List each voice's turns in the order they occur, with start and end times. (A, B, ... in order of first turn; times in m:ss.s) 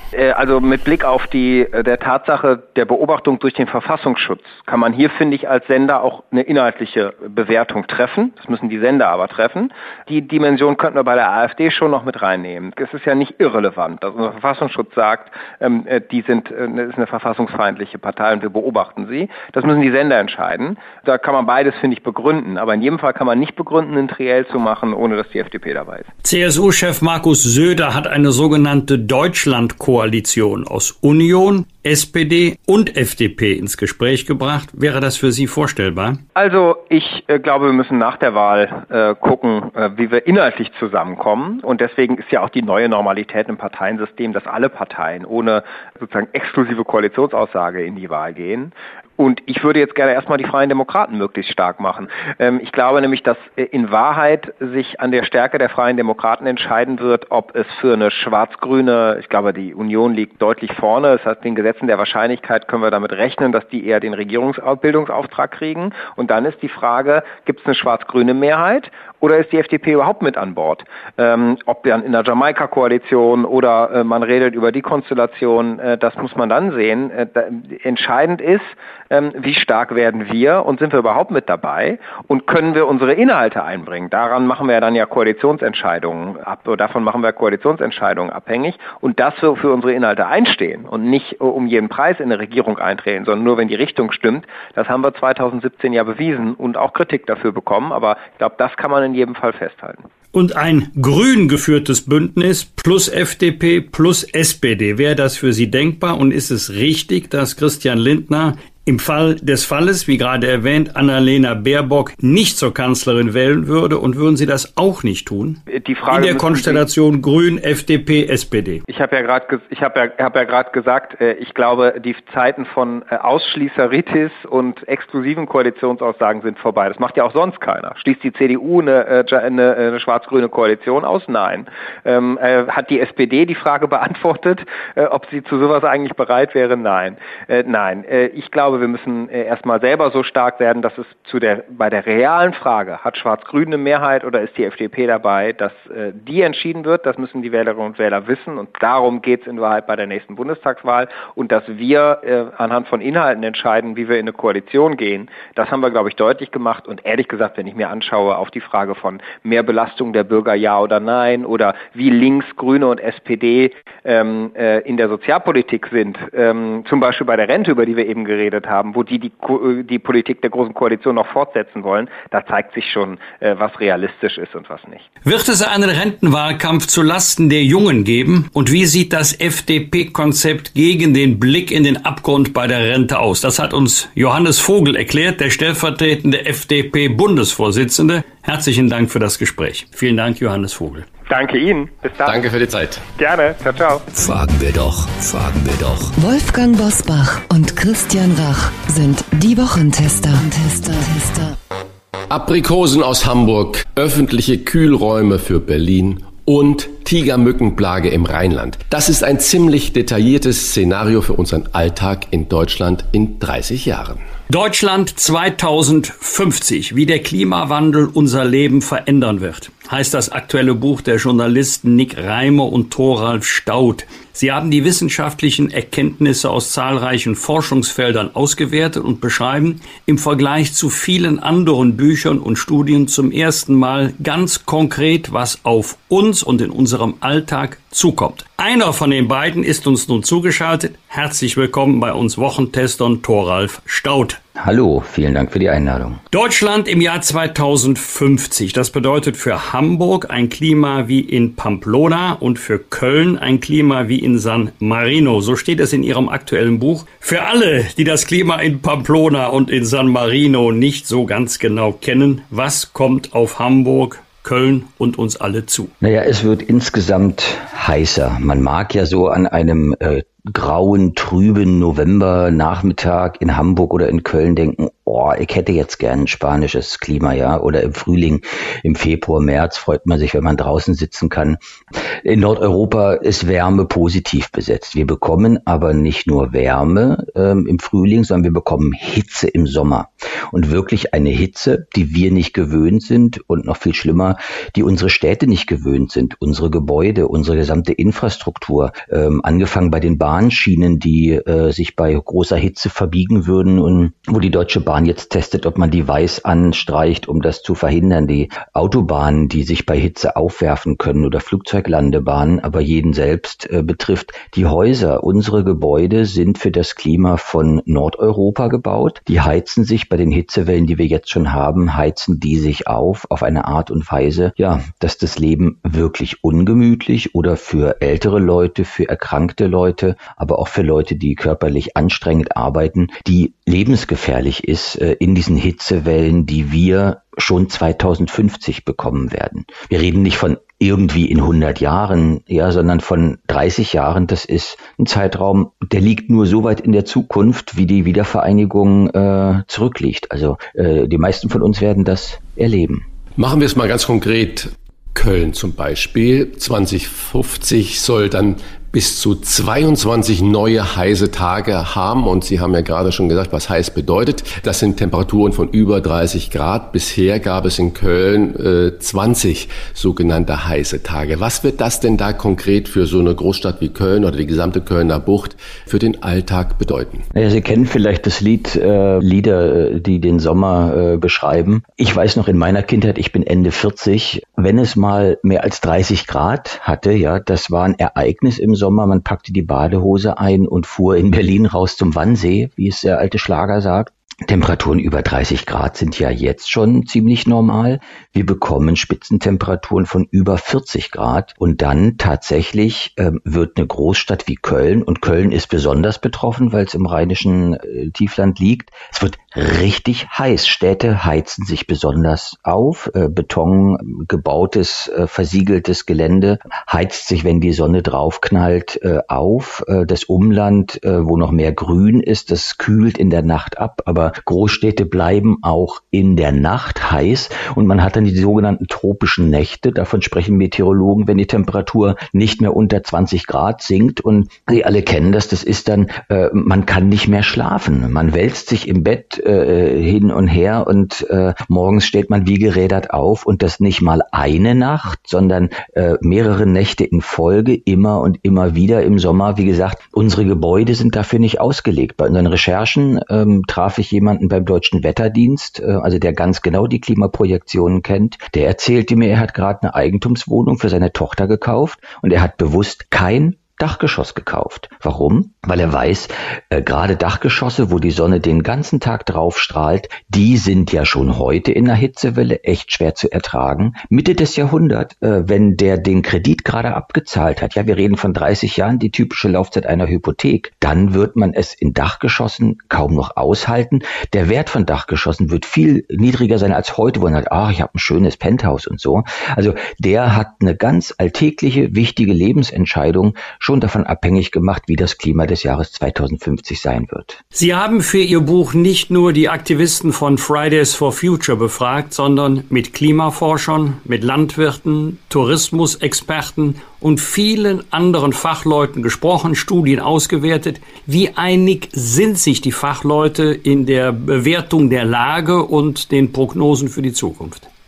0:00.1-0:26.1 A
0:26.2-0:36.2 B
0:36.4-1:40.0 A
1:40.3-1:58.8 B
1:55.7-1:56.8 A
1:58.9-2:55.1 A
2:55.2-3:11.1 B
3:11.3-3:12.4 A
3:12.2-3:13.0 C
3:13.2-3:14.0 A
3:14.1-3:16.1 D
3:16.2-3:21.6 E
3:22.3-3:34.2 C
3:34.5-4:04.4 B
4:04.6-4:06.2 F
4:06.3-4:25.9 B
4:26.0-4:41.6 F
4:42.2-5:53.0 F
5:53.4-6:17.2 C
6:17.3-8:17.4 F
8:17.5-8:37.7 B